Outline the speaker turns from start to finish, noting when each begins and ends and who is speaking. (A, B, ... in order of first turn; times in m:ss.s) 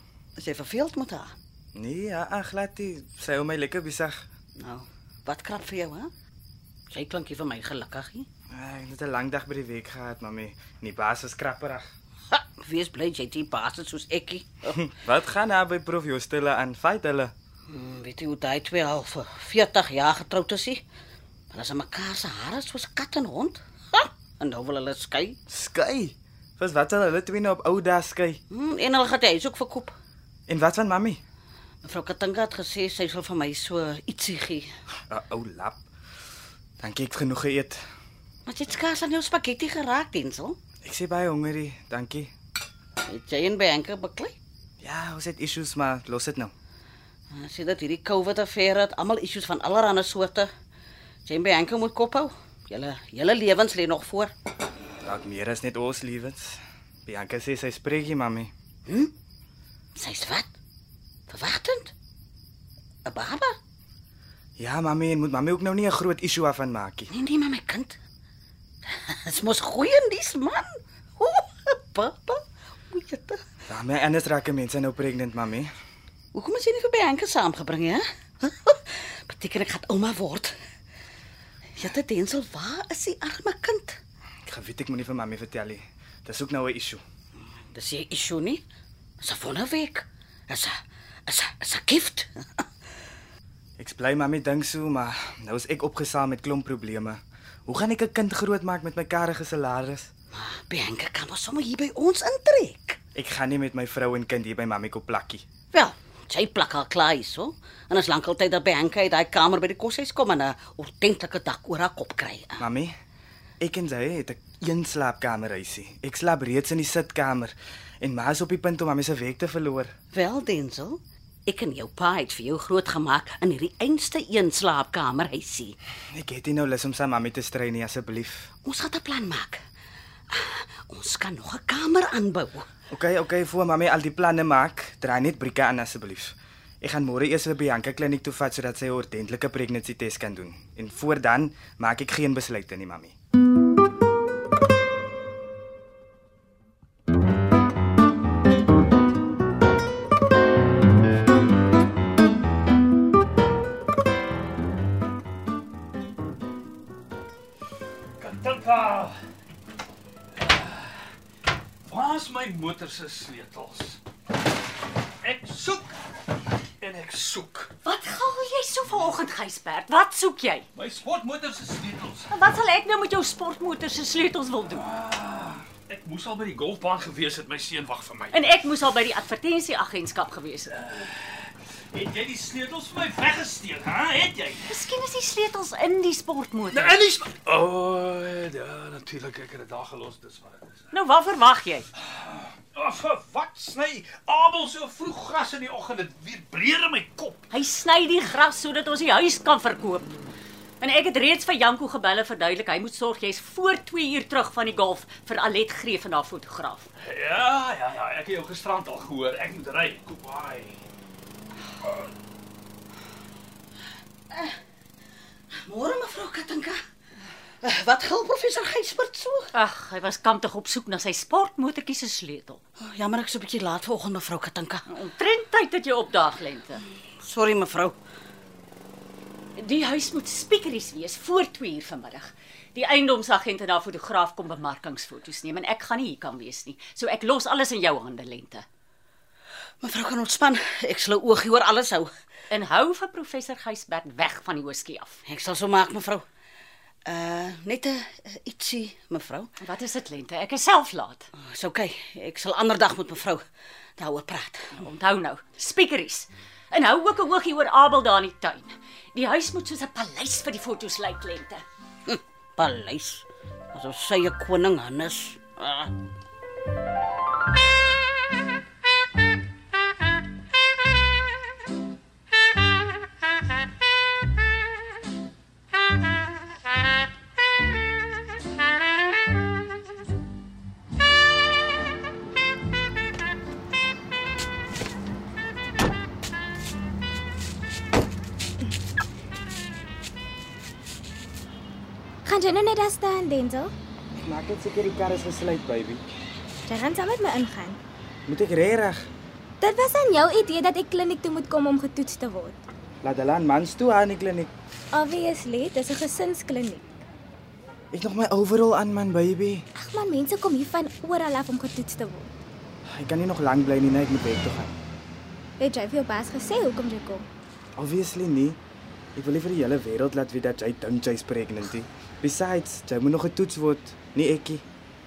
0:00.4-0:01.3 A
0:01.8-0:04.3 B
0:04.6-0:06.1 A
0:06.9-0:08.3 A
0:08.5-0:11.8 B
0:12.3-0:14.8 A
0:14.8-0:17.3 B
0:17.7-0:20.8 A
0:21.5-0:25.4 A
0:25.5-0:28.4 B
0:28.5-0:29.9 A
0:30.5-0:31.2 B
0:31.8-0:34.7 A
0:35.1-0:35.8 B
0:36.8-0:37.8 B
0:38.5-0:40.6 A
0:40.8-0:42.3 B
0:43.1-0:44.4 A
0:44.8-0:46.5 B
0:47.3-0:50.5 A
0:51.3-0:54.3 A
0:55.0-0:58.5 B
0:58.9-0:59.1 A
1:00.0-1:00.5 A
1:01.3-1:01.9 A
1:03.0-1:03.6 A
1:04.6-1:07.1 B
1:07.1-1:08.0 A
1:08.9-1:10.7 A
1:11.2-1:13.4 A
1:13.7-1:15.7 B
1:16.3-1:20.6 A
1:21.8-1:24.0 A
1:24.4-1:27.0 B
1:27.7-1:28.6 A
1:29.2-1:32.6 A
1:33.8-1:40.1 B
1:40.3-1:43.0 A
1:43.2-1:45.4 B
1:45.7-1:52.6 A
1:52.6-1:52.9 B
1:53.6-1:59.9 B
2:00.1-2:05.8 A
2:06.1-2:08.5 B
2:08.6-2:09.6 A
2:10.3-2:12.7 A
2:12.9-2:23.1 B
2:38.2-2:39.1 C
2:40.4-2:40.9 C
2:41.9-2:44.0 C
2:45.2-2:46.0 C
2:46.8-2:47.7 C
2:47.8-2:50.7 D
2:50.8-2:52.3 C
2:52.3-2:54.9 D
2:54.7-2:58.5 C
2:58.3-3:00.8 D
3:00.7-3:04.8 C
3:04.7-3:07.0 D
3:06.7-3:10.9 C
3:10.9-3:11.9 D
3:12.0-3:17.4 C
3:17.5-3:20.1 D
3:20.8-3:26.9 D
3:27.0-3:30.8 C
3:35.5-3:36.8 A
3:37.6-3:39.5 A
3:39.5-3:42.6 D
3:42.8-3:44.9 A
3:44.9-3:46.8 D
3:47.2-3:48.0 A
3:49.6-3:58.6 D
3:59.8-4:02.1 A
4:02.5-4:05.2 D
4:05.3-4:06.2 A
4:07.1-4:09.5 A
4:09.6-4:11.3 D
4:11.4-4:13.4 A
4:14.0-4:14.8 A
4:14.8-4:21.6 D
4:22.1-4:25.9 A
4:52.2-4:53.7 E
4:54.2-4:56.0 B
4:56.7-4:57.8 E
4:58.3-4:59.1 B
4:59.6-5:02.6 E
5:03.0-5:04.5 B
5:04.9-5:06.9 E
5:07.9-5:09.7 B
5:09.8-5:12.3 E
5:12.9-5:14.7 B
5:15.6-5:17.3 E
5:17.8-5:18.6 B
5:19.2-5:24.6 B